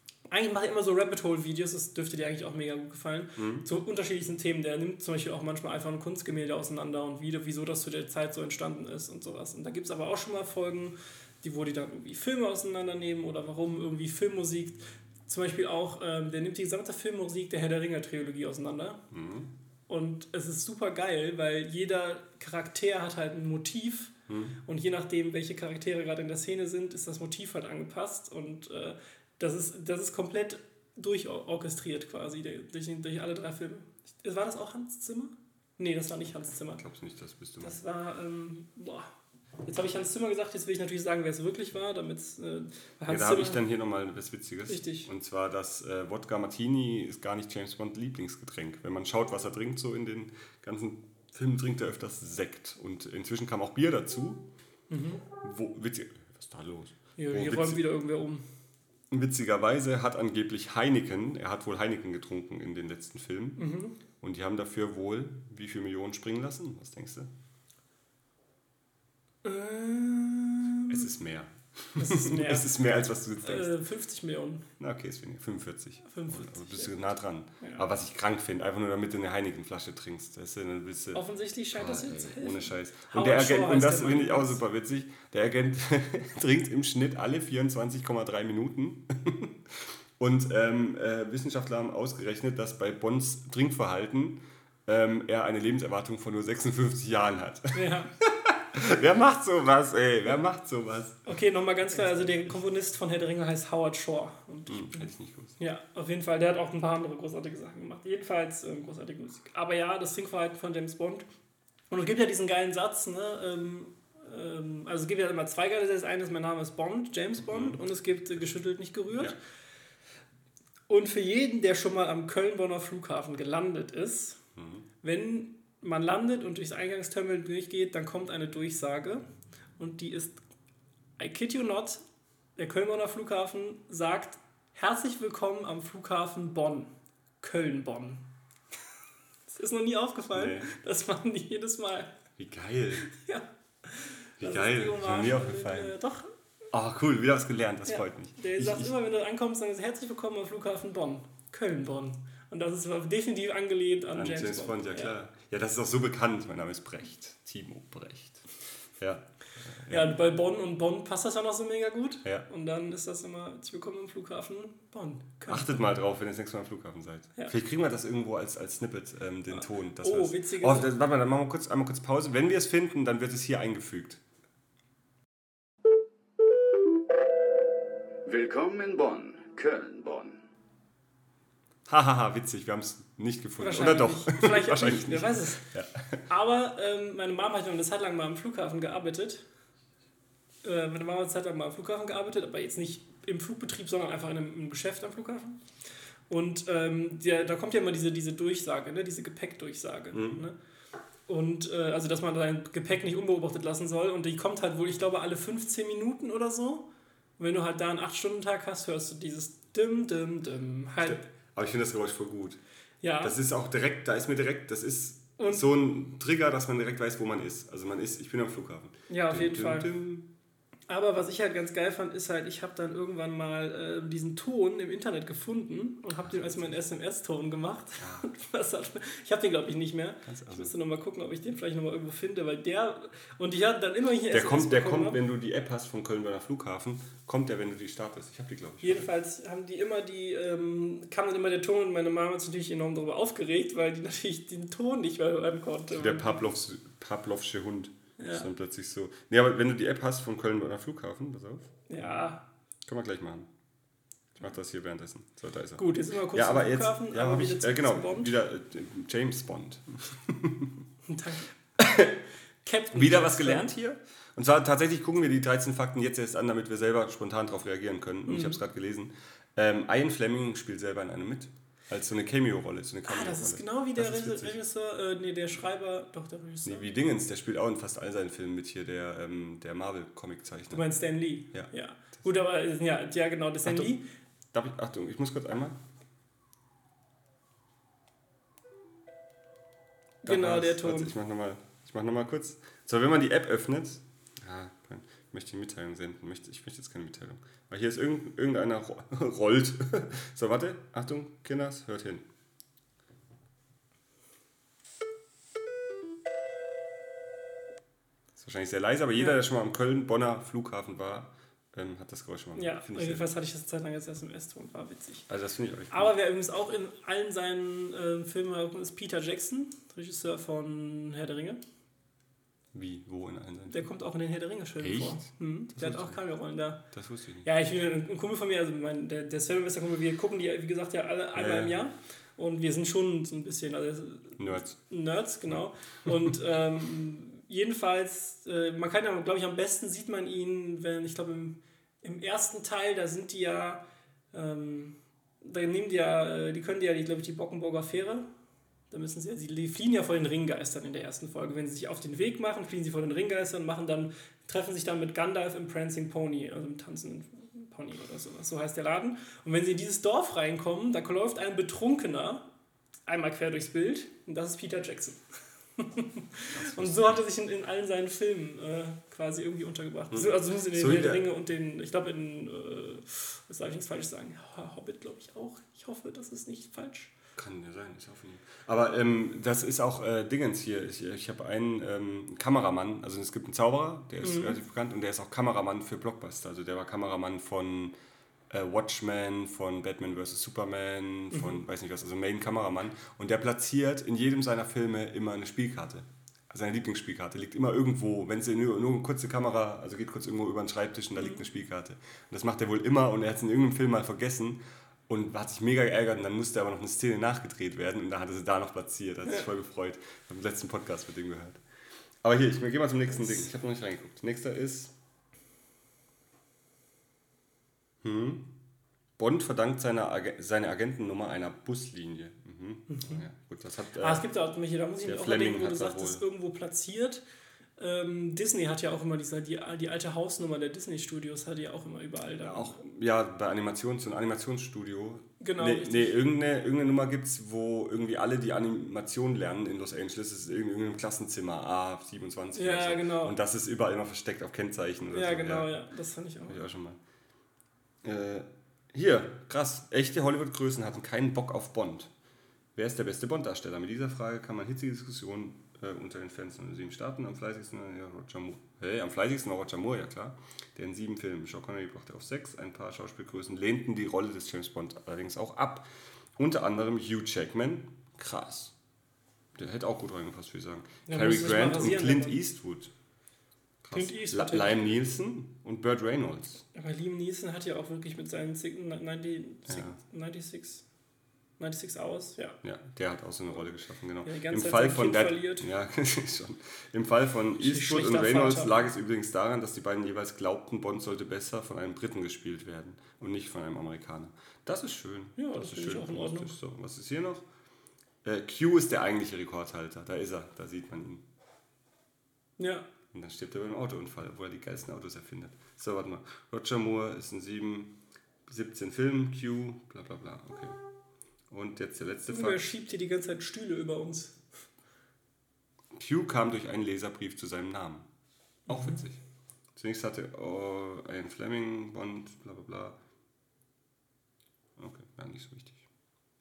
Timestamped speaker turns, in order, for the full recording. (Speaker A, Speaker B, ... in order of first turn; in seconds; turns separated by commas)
Speaker A: 0.3-19.0, Speaker B: 3.4-3.7, Speaker B: 19.1-19.5, Speaker A: 19.9-24.1, Speaker B: 24.3-24.6, Speaker A: 24.6-36.8, Speaker B: 36.6-37.8, Speaker A: 37.6-39.1, Speaker A: 39.6-43.6, Speaker B: 43.1-54.5, Speaker A: 44.7-45.1, Speaker A: 54.9-55.2, Speaker B: 55.4-57.8, Speaker A: 57.2-58.4, Speaker B: 59.1-63.6, Speaker A: 63.6-64.0, Speaker B: 64.2-67.3, Speaker A: 69.4-71.0, Speaker B: 70.9-73.7, Speaker A: 72.0-72.7, Speaker A: 73.4-74.7, Speaker B: 74.8-81.2, Speaker A: 76.1-76.9, Speaker A: 81.1-84.6, Speaker B: 81.7-101.2, Speaker A: 97.7-98.1, Speaker A: 101.2-111.2, Speaker B: 102.0-102.5, Speaker B: 104.7-105.6, Speaker A: 111.9-119.3, Speaker B: 117.4-117.8, Speaker B: 119.1-119.4, Speaker A: 120.9-124.4, Speaker B: 124.5-124.8, Speaker A: 125.0-129.2, Speaker A: 129.8-130.4, Speaker A: 131.2-132.0, Speaker A: 132.6-138.2, Speaker A: 139.5-142.2, Speaker B: 140.3-140.7, Speaker B: 142.4-143.0, Speaker A: 143.0-146.3, Speaker B: 144.4-145.9, Speaker B: 146.7-148.9, Speaker A: 147.9-155.1, Speaker B: 154.1-158.4, Speaker B: 159.0-160.1, Speaker A: 159.9-165.9, Speaker B: 165.5-174.2, Speaker A: 169.5-170.9, Speaker C: 178.2-180.4, Speaker B: 181.9-186.2, Speaker A: 183.6-185.7, Speaker A: 186.3-189.4, Speaker A: 190.6-195.6, Speaker A: 196.3-200.6, Speaker B: 200.1-200.4, Speaker A: 201.3-206.8, Speaker A: 207.4-211.2, Speaker B: 211.0-212.6, Speaker A: 213.0-213.4, Speaker B: 213.2-220.3, Speaker A: 215.4-215.7, Speaker A: 219.1-219.9, Speaker A: 220.9-235.2, Speaker B: 226.2-226.8, Speaker B: 228.0-228.3, Speaker B: 230.2-230.7, Speaker B: 234.3-239.1, Speaker A: 238.8-246.4, Speaker B: 245.9-252.1, Speaker A: 248.2-248.5, Speaker A: 251.9-252.4, Speaker B: 252.8-253.5, Speaker B: 254.4-260.8, Speaker A: 255.8-258.3, Speaker A: 261.1-261.5, Speaker B: 261.8-262.1, Speaker A: 262.6-263.7, Speaker B: 262.9-274.6, Speaker A: 268.3-268.6, Speaker A: 273.1-276.9, Speaker B: 276.6-280.9, Speaker A: 280.7-284.0, Speaker B: 283.6-283.9, Speaker B: 284.5-285.8, Speaker B: 290.2-302.2, Speaker A: 290.2-291.1, Speaker B: 308.4-313.3, Speaker A: 312.6-315.2, Speaker B: 315.3-316.1, Speaker A: 315.9-321.6, Speaker B: 322.7-323.9, Speaker A: 323.7-326.8, Speaker B: 324.8-326.2, Speaker B: 326.9-327.4, Speaker A: 327.4-348.3, Speaker B: 331.3-331.8, Speaker B: 334.4-334.8, Speaker B: 335.5-336.1, Speaker A: 348.9-362.5, Speaker A: 363.1-365.2, Speaker A: 365.8-377.1, Speaker B: 366.5-367.2, Speaker B: 370.1-371.3, Speaker B: 377.4-387.9, Speaker A: 384.2-384.6, Speaker B: 388.5-411.6, Speaker A: 391.3-391.6, Speaker A: 401.2-401.4, Speaker B: 412.2-414.9, Speaker B: 418.0-418.5, Speaker B: 419.2-424.2, Speaker A: 422.9-423.2, Speaker A: 424.0-427.2, Speaker B: 425.0-426.2, Speaker A: 427.8-432.8, Speaker B: 432.4-445.7, Speaker A: 435.4-436.2, Speaker A: 442.5-443.4, Speaker A: 445.1-446.6, Speaker B: 446.5-447.0, Speaker B: 448.0-452.1, Speaker B: 452.7-468.7, Speaker B: 469.6-472.9, Speaker A: 471.1-472.4, Speaker B: 473.8-476.6, Speaker A: 473.9-474.8, Speaker A: 476.7-480.8, Speaker B: 479.7-480.0, Speaker A: 481.6-482.6, Speaker B: 482.6-497.4, Speaker A: 484.2-485.7, Speaker A: 487.6-488.8, Speaker A: 495.4-496.5, Speaker B: 498.2-501.2, Speaker A: 502.6-502.9, Speaker B: 503.1-510.8, Speaker B: 511.5-512.7, Speaker A: 512.3-514.4, Speaker B: 515.9-518.1, Speaker B: 518.7-519.2, Speaker B: 519.7-523.0, Speaker B: 524.8-525.9